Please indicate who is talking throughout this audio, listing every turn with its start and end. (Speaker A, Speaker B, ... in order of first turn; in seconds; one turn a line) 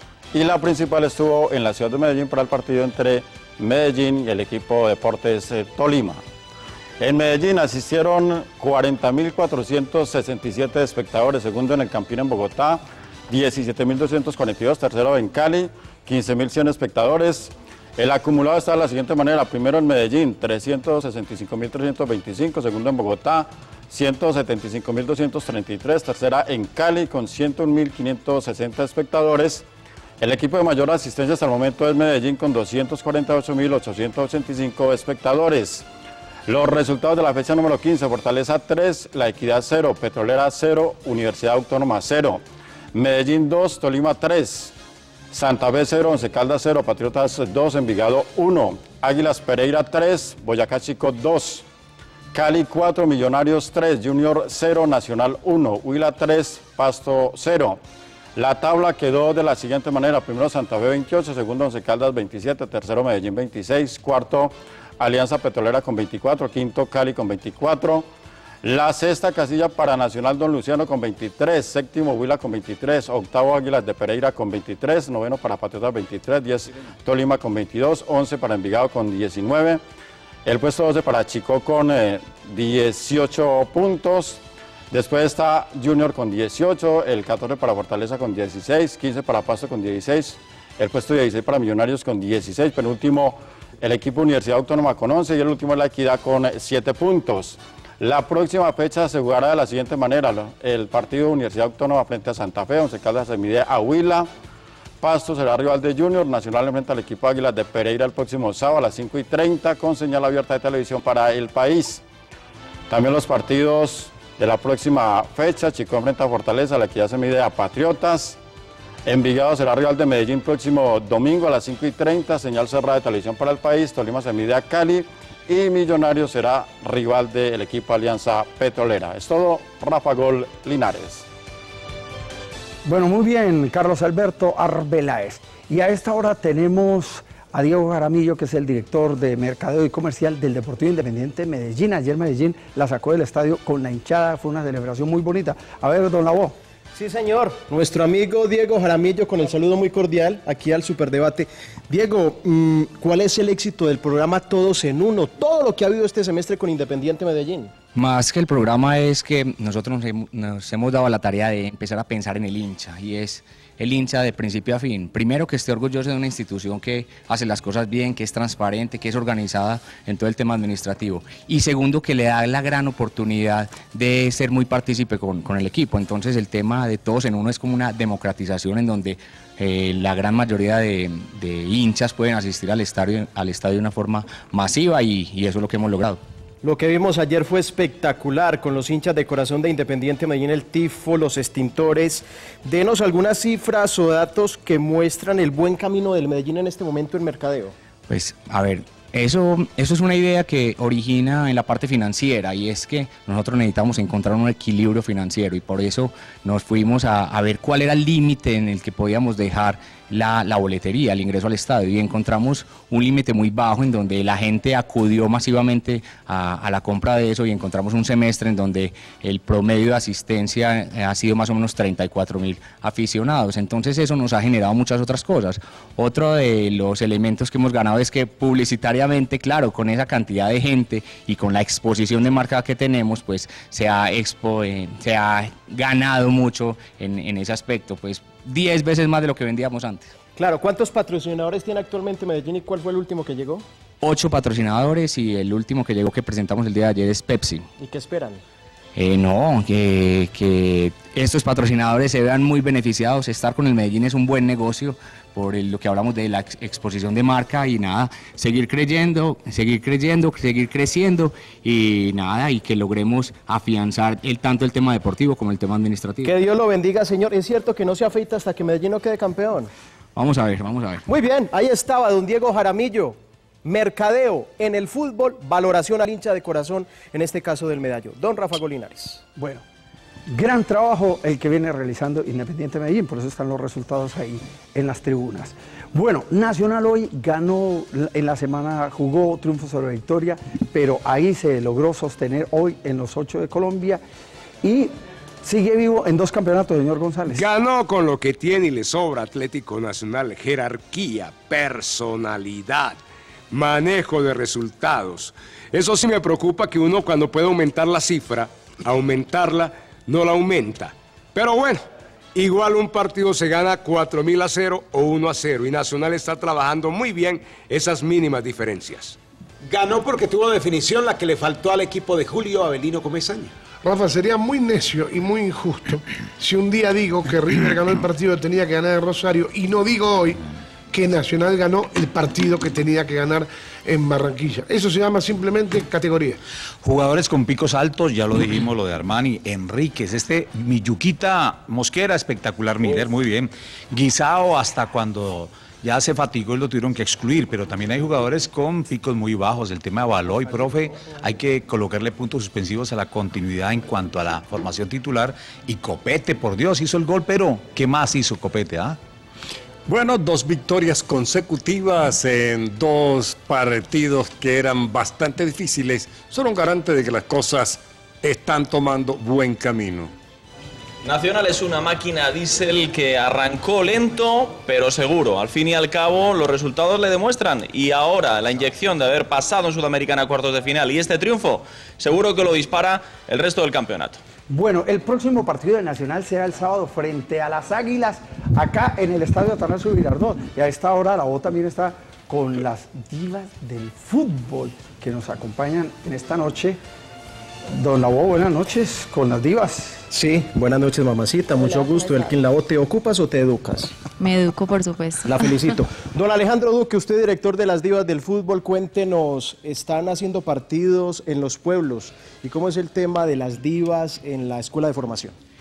Speaker A: 0.3-6.2
Speaker A: 7.0-29.6
Speaker A: 30.2-35.8
Speaker A: 36.5-42.4
Speaker A: 42.9-44.7
Speaker A: 45.3-51.6
Speaker A: 52.3-57.8
Speaker A: 58.4-68.0
Speaker A: 68.6-79.8
Speaker A: 80.4-104.3
Speaker A: 105.0-112.0
Speaker A: 112.9-118.4
Speaker A: 119.0-131.2
Speaker B: 132.8-146.6
Speaker C: 146.9-157.7
Speaker D: 157.9-186.2
Speaker C: 186.6-197.7
Speaker D: 198.1-240.1
Speaker C: 240.3-243.6
Speaker D: 244.0-247.7
Speaker C: 247.8-248.4
Speaker D: 248.9-266.3
Speaker C: 266.2-269.7
Speaker D: 270.1-271.0
Speaker C: 271.1-279.2
Speaker B: 279.4-279.6
Speaker B: 280.3-294.0
Speaker B: 294.6-294.9
Speaker B: 295.4-297.4
Speaker E: 297.3-303.0
Speaker E: 303.5-311.8
Speaker E: 312.3-319.1
Speaker F: 319.6-323.5
Speaker G: 323.8-330.4
Speaker G: 330.9-336.4
Speaker H: 336.8-359.0
Speaker I: 359.9-370.1
Speaker J: 371.0-384.2
Speaker B: 384.5-396.8
Speaker B: 397.7-400.0
Speaker C: 400.1-403.9
Speaker C: 405.2-415.4